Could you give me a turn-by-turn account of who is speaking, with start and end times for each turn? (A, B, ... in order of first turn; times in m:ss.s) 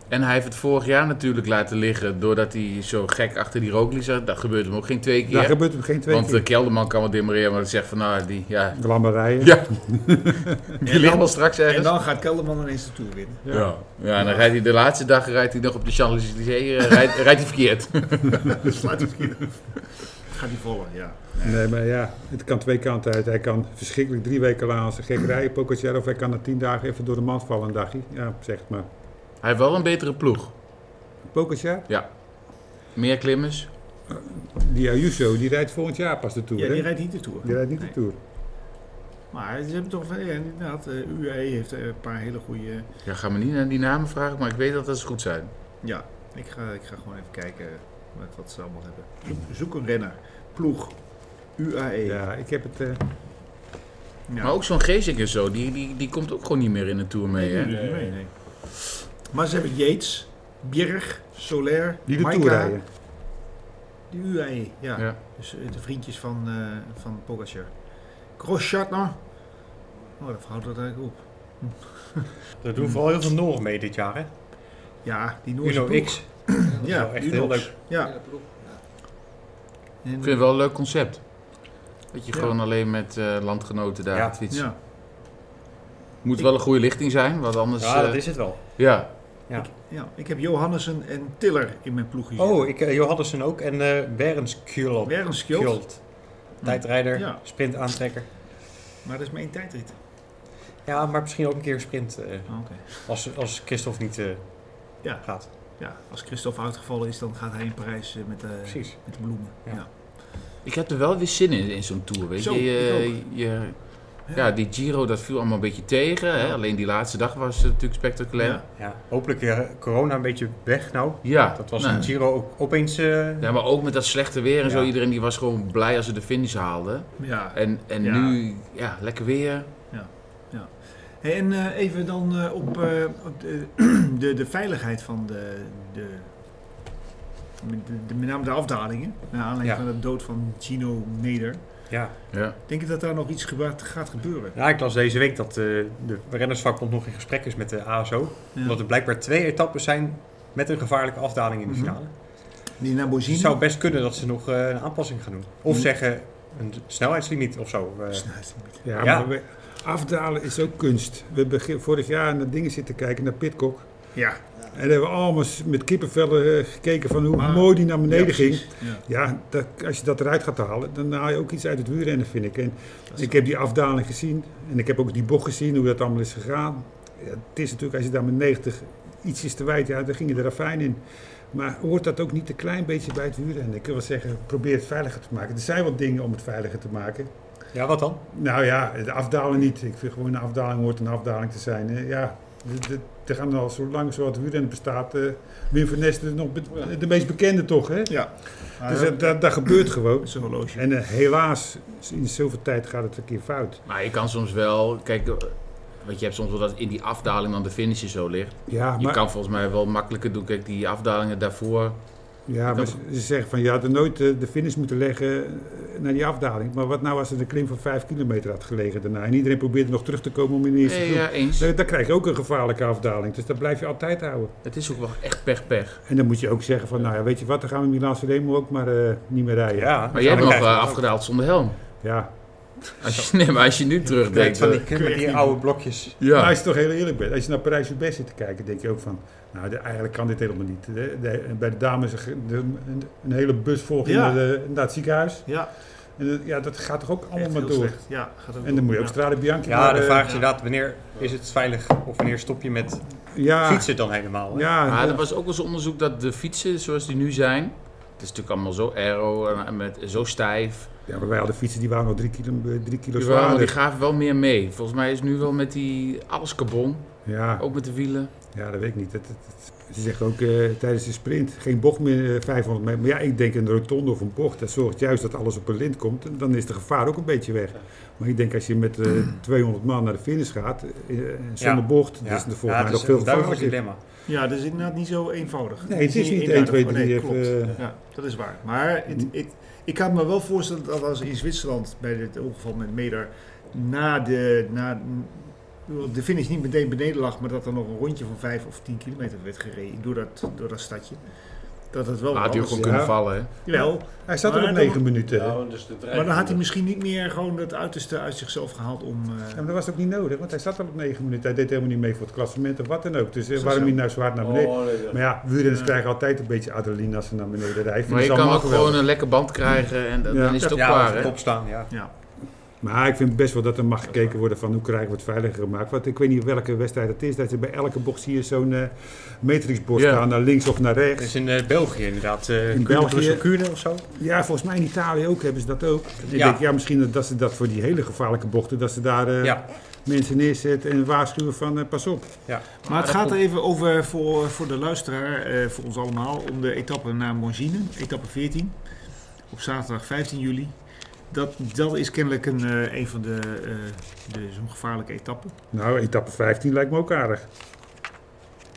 0:00.1-0:11.9 A
0:05.3-0:06.4 B
0:08.7-0:10.6 B
0:10.8-0:14.5 C
0:13.5-0:13.8 B
0:13.5-0:18.6 A
0:18.4-0:21.6 C
0:21.4-0:28.9 B
0:29.4-0:30.6 A
0:31.3-0:31.9 B
0:31.9-0:33.7 A
0:34.1-0:38.2 B
0:36.6-0:38.0 C
0:39.3-0:42.9 C
0:43.0-0:45.5 A
0:45.8-0:52.2 C
0:52.0-0:53.0 B
0:54.3-0:54.6 C
0:54.4-0:57.7 A
0:57.4-1:02.8 C
0:57.7-0:58.1 D
1:02.1-1:02.8 B
1:04.1-1:13.0 C
1:12.6-1:14.3 E
1:15.0-1:18.4 C
1:15.6-1:17.8 E
1:20.0-1:20.4 C
1:20.2-1:24.7 A
1:24.5-1:24.8 C
1:26.2-1:29.4 A
1:27.8-1:29.7 E
1:29.6-1:32.7 C
1:32.4-1:38.3 E
1:35.0-1:37.4 C
1:39.0-1:40.0 C
1:40.8-1:45.5 E
1:42.5-1:42.8 C
1:45.0-1:49.9 C
1:48.7-1:49.8 E
1:50.6-1:58.6 A
1:52.4-1:53.2 C
1:58.4-1:58.6 C
1:58.8-2:03.5 E
2:01.2-2:02.1 A
2:03.4-2:09.8 A
2:07.2-2:08.4 C
2:09.9-2:16.3 C
2:17.6-2:24.6 C
2:22.3-2:22.6 A
2:24.6-2:32.1 E
2:31.7-2:33.6 C
2:33.3-2:38.5 E
2:38.1-2:38.8 C
2:38.8-2:44.1 B
2:39.0-2:39.3 E
2:44.2-2:44.4 C
2:44.7-3:07.3 B
2:47.3-2:49.0 C
2:53.1-2:53.4 C
3:07.7-3:08.2 E
3:08.3-3:23.8 B
3:18.1-3:20.8 C
3:23.9-3:33.0 A
3:28.7-3:29.2 B
3:32.5-3:44.5 B
3:40.8-3:41.7 A
3:44.6-3:46.0 A
3:46.1-3:50.7 B
3:49.8-3:51.0 E
3:50.1-3:52.0 A
3:52.0-3:52.8 B
3:53.0-3:54.8 A
3:54.3-3:56.2 E
3:54.8-3:55.6 C
3:56.2-3:56.5 A
3:56.3-4:10.4 B
4:04.0-4:04.4 C
4:05.5-4:05.7 C
4:07.4-4:09.2 C
4:09.7-4:14.7 E
4:13.3-4:15.2 B
4:14.9-4:20.9 A
4:21.1-4:23.8 B
4:23.2-4:28.3 A
4:27.3-4:27.6 B
4:28.5-4:43.9 B
4:41.6-4:44.0 E
4:44.3-5:05.0 C
4:45.8-4:47.8 B
5:02.3-5:03.5 A
5:02.7-5:05.6 B
5:05.3-5:06.6 D
5:06.1-5:09.6 C
5:09.5-5:19.0 B
5:13.6-5:14.0 C
5:14.4-5:15.2 D
5:15.7-5:15.9 C
5:18.1-5:21.4 A
5:20.3-5:20.7 B
5:20.6-5:22.1 C
5:20.7-5:21.9 E
5:22.8-5:31.3 B
5:30.0-5:30.2 A
5:31.2-5:34.0 E
5:32.7-5:42.5 B
5:36.3-5:36.6 E
5:42.5-5:42.7 E
5:42.8-5:55.6 C
5:42.9-5:43.2 A
5:55.7-5:57.5 B